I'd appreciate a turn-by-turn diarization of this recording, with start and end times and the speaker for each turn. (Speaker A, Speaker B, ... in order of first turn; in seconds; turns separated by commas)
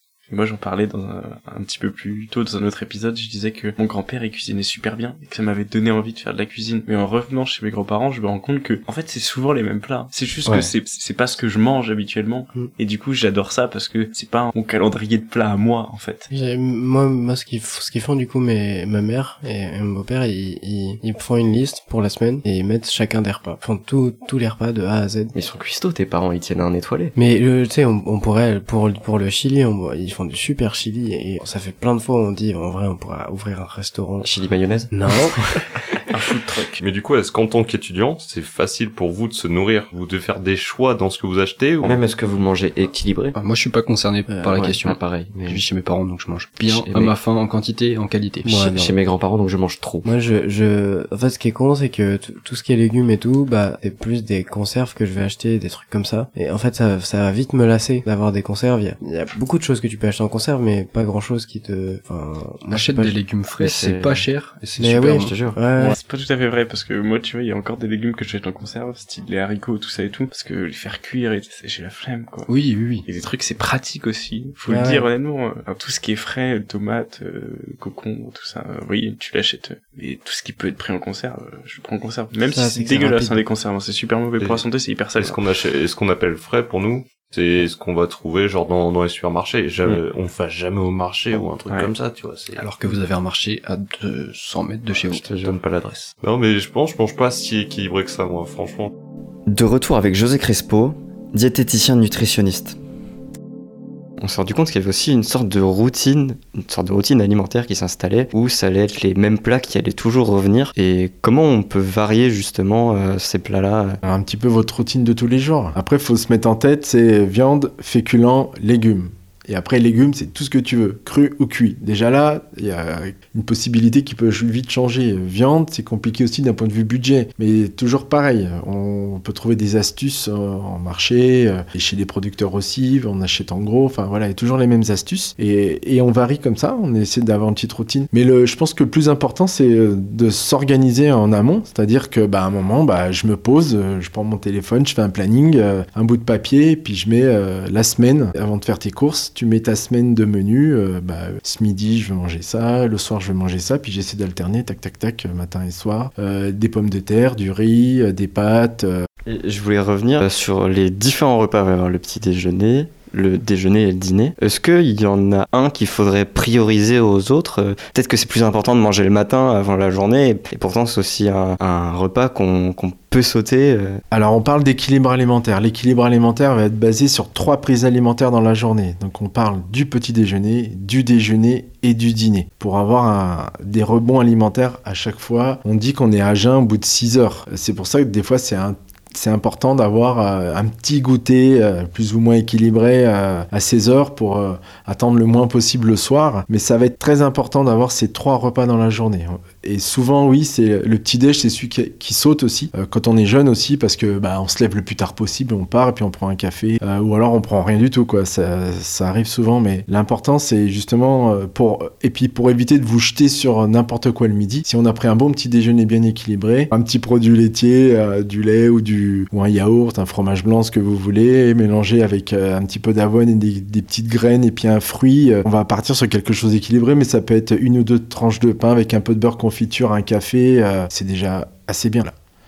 Speaker A: 0.3-16.3, Speaker B: 10.5-10.7, Speaker C: 16.3-25.3, Speaker B: 25.3-27.1, Speaker C: 27.2-34.3, Speaker B: 34.2-34.9, Speaker C: 34.9-35.6, Speaker A: 36.1-36.8, Speaker D: 36.8-42.0, Speaker B: 41.8-43.4, Speaker E: 43.4-48.7, Speaker C: 44.3-44.6, Speaker B: 44.5-45.6, Speaker B: 46.6-47.2, Speaker C: 48.5-48.9, Speaker B: 48.7-50.1, Speaker C: 50.0-63.2, Speaker E: 62.7-65.3, Speaker B: 63.6-64.3, Speaker C: 64.8-66.0, Speaker B: 64.9-65.6, Speaker A: 65.8-72.5, Speaker E: 72.5-73.1, Speaker A: 73.1-85.4, Speaker C: 74.7-75.0, Speaker C: 82.5-83.4, Speaker D: 85.2-92.7, Speaker E: 92.6-95.3, Speaker B: 95.1-95.6, Speaker D: 95.4-98.9, Speaker B: 99.5-102.8, Speaker B: 104.2-114.0, Speaker F: 114.0-159.1, Speaker B: 159.2-174.0, Speaker F: 174.1-232.1